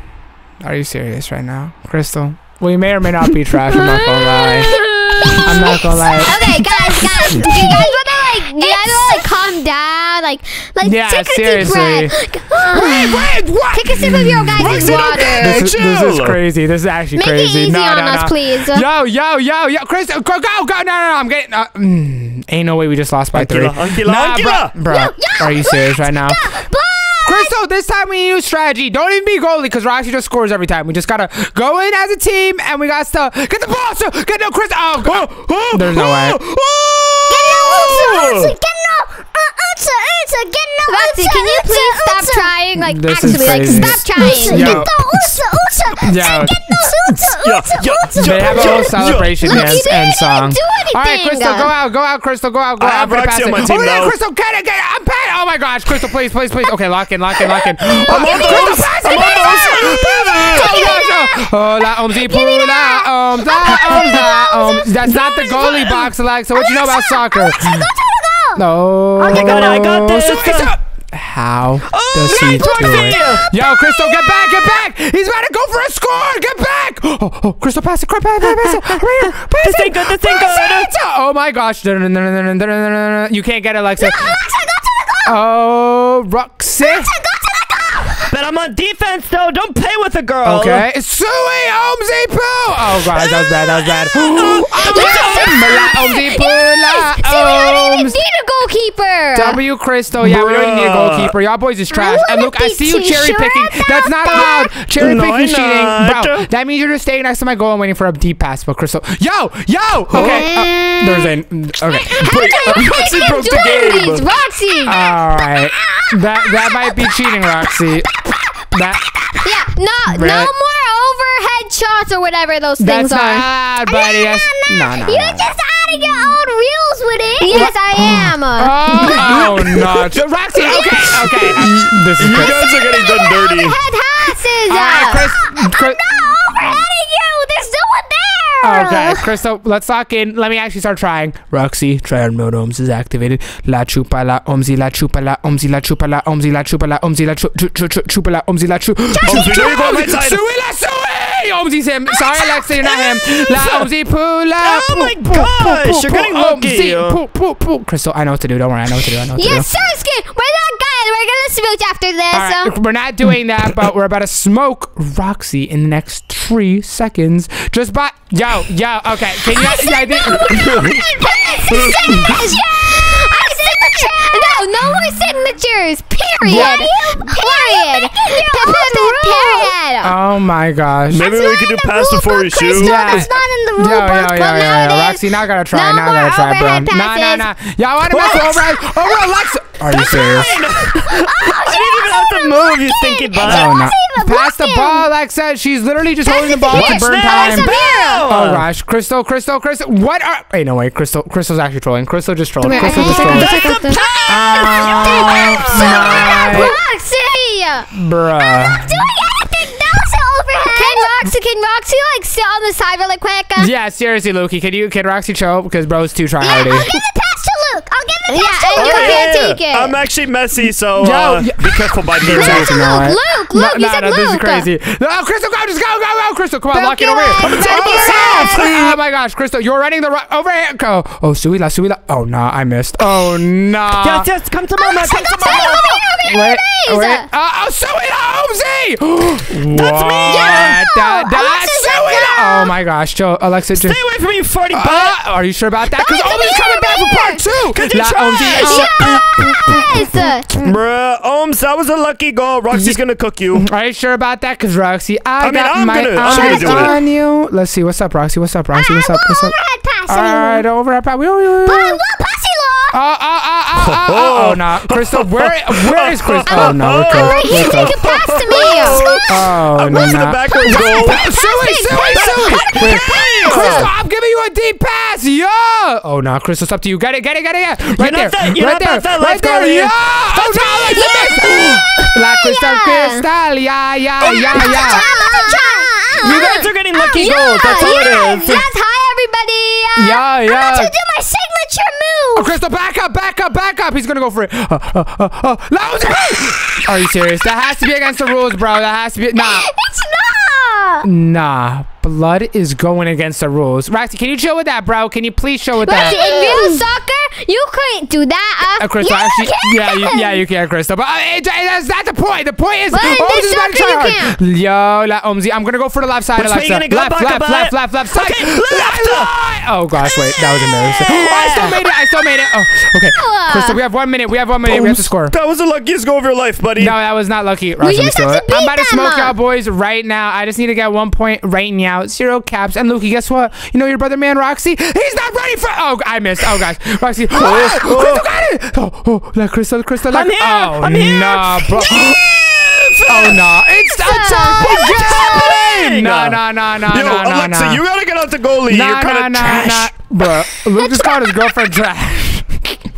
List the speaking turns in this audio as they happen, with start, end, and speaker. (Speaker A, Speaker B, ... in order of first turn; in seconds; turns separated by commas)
Speaker A: 0.6-4.8, Speaker B: 3.7-15.6, Speaker C: 5.3-9.3, Speaker A: 5.4-6.4, Speaker A: 10.8-12.1, Speaker A: 12.7-26.5, Speaker D: 14.6-16.4, Speaker B: 17.1-18.9, Speaker D: 23.3-24.7, Speaker C: 24.8-27.5, Speaker A: 27.2-36.4, Speaker D: 35.0-38.5, Speaker C: 37.3-42.5, Speaker B: 40.9-44.9, Speaker A: 42.7-45.3, Speaker C: 43.2-50.5, Speaker A: 46.0-47.3, Speaker D: 47.4-49.5, Speaker A: 48.1-67.9, Speaker B: 49.4-51.7, Speaker D: 52.8-54.1, Speaker D: 58.0-60.9, Speaker C: 58.1-70.3, Speaker A: 68.5-84.4, Speaker D: 69.2-70.7, Speaker D: 71.9-73.4, Speaker C: 72.3-74.8, Speaker D: 78.4-80.9, Speaker C: 80.3-81.0, Speaker C: 84.0-85.4, Speaker A: 85.2-87.1, Speaker C: 86.8-88.3, Speaker D: 88.3-90.8, Speaker A: 90.4-98.2, Speaker C: 93.1-96.1, Speaker B: 94.8-99.6, Speaker A: 99.3-112.3, Speaker D: 100.2-101.3, Speaker B: 102.0-102.8, Speaker C: 102.2-104.7, Speaker D: 105.0-106.5, Speaker D: 110.1-110.5, Speaker C: 110.1-111.3, Speaker B: 112.2-115.0, Speaker D: 112.2-114.3, Speaker C: 112.2-112.8, Speaker C: 114.8-119.5, Speaker A: 114.8-118.1, Speaker A: 118.7-119.0, Speaker B: 119.4-123.5, Speaker A: 120.1-120.5, Speaker A: 122.8-125.5, Speaker C: 123.8-127.7, Speaker B: 127.4-129.2, Speaker A: 127.5-132.7, Speaker D: 129.0-133.8, Speaker C: 132.2-139.3, Speaker B: 134.2-135.3, Speaker A: 134.7-136.8, Speaker A: 138.6-159.7, Speaker C: 149.2-149.8, Speaker D: 149.2-150.4, Speaker C: 152.1-153.7, Speaker D: 154.6-157.2, Speaker B: 159.3-162.7, Speaker A: 162.3-170.7, Speaker C: 169.5-174.9, Speaker B: 170.3-180.1, Speaker C: 176.4-179.7, Speaker A: 176.4-176.8, Speaker A: 180.0-181.2, Speaker D: 181.1-183.2, Speaker C: 181.2-185.2, Speaker A: 182.7-190.6, Speaker B: 185.7-187.4, Speaker D: 188.1-188.7, Speaker C: 188.3-195.1, Speaker D: 189.8-193.7, Speaker A: 193.4-197.7, Speaker C: 196.2-198.1, Speaker D: 196.7-198.7, Speaker B: 197.5-198.2, Speaker A: 198.2-203.6, Speaker B: 202.6-204.0, Speaker C: 202.7-206.8, Speaker D: 202.8-206.3, Speaker A: 204.3-206.7, Speaker B: 205.8-207.9, Speaker A: 207.9-209.1, Speaker C: 208.4-211.1, Speaker B: 210.7-213.7, Speaker A: 213.6-216.9, Speaker C: 216.4-219.4, Speaker B: 218.3-219.9, Speaker D: 218.7-222.7, Speaker A: 220.9-234.3, Speaker B: 222.3-224.7, Speaker C: 222.4-223.1, Speaker C: 226.7-228.7, Speaker D: 227.4-229.0, Speaker D: 233.9-236.0, Speaker C: 234.8-236.9, Speaker A: 236.3-244.0, Speaker B: 236.5-237.2, Speaker C: 239.7-242.7, Speaker D: 240.2-240.8, Speaker D: 243.7-245.2, Speaker A: 244.7-250.7, Speaker B: 246.1-247.4, Speaker C: 246.5-247.1, Speaker D: 247.7-248.9, Speaker C: 248.4-250.1, Speaker B: 248.5-250.5, Speaker D: 250.6-253.6, Speaker A: 253.5-259.6, Speaker D: 255.4-257.0, Speaker C: 256.3-256.9, Speaker C: 258.7-260.6, Speaker A: 260.1-262.0, Speaker C: 261.6-262.9, Speaker A: 262.9-267.9, Speaker D: 263.8-271.3, Speaker C: 266.5-269.3, Speaker B: 267.3-269.0, Speaker A: 269.3-285.1, Speaker C: 270.7-272.0, Speaker B: 271.0-273.7, Speaker D: 272.0-273.9, Speaker D: 278.0-280.0, Speaker C: 280.3-281.8, Speaker B: 280.9-283.2, Speaker C: 284.2-286.4, Speaker B: 284.2-290.2, Speaker D: 286.2-288.6, Speaker A: 290.0-290.9, Speaker C: 290.4-292.5, Speaker A: 292.3-299.7, Speaker C: 299.4-301.1, Speaker A: 301.0-306.2, Speaker B: 305.8-308.9, Speaker C: 305.9-306.8, Speaker A: 308.8-325.3, Speaker C: 309.0-310.4, Speaker B: 312.9-314.4, Speaker D: 316.4-319.3, Speaker C: 320.1-321.3, Speaker D: 321.0-321.8, Speaker B: 323.1-323.8, Speaker D: 324.6-326.9, Speaker A: 326.8-342.2, Speaker B: 327.8-329.3, Speaker D: 337.3-338.3, Speaker D: 340.1-343.6, Speaker A: 343.1-347.8, Speaker B: 343.9-344.6, Speaker C: 344.5-345.6, Speaker D: 344.6-350.3, Speaker A: 348.7-352.8, Speaker C: 350.7-351.5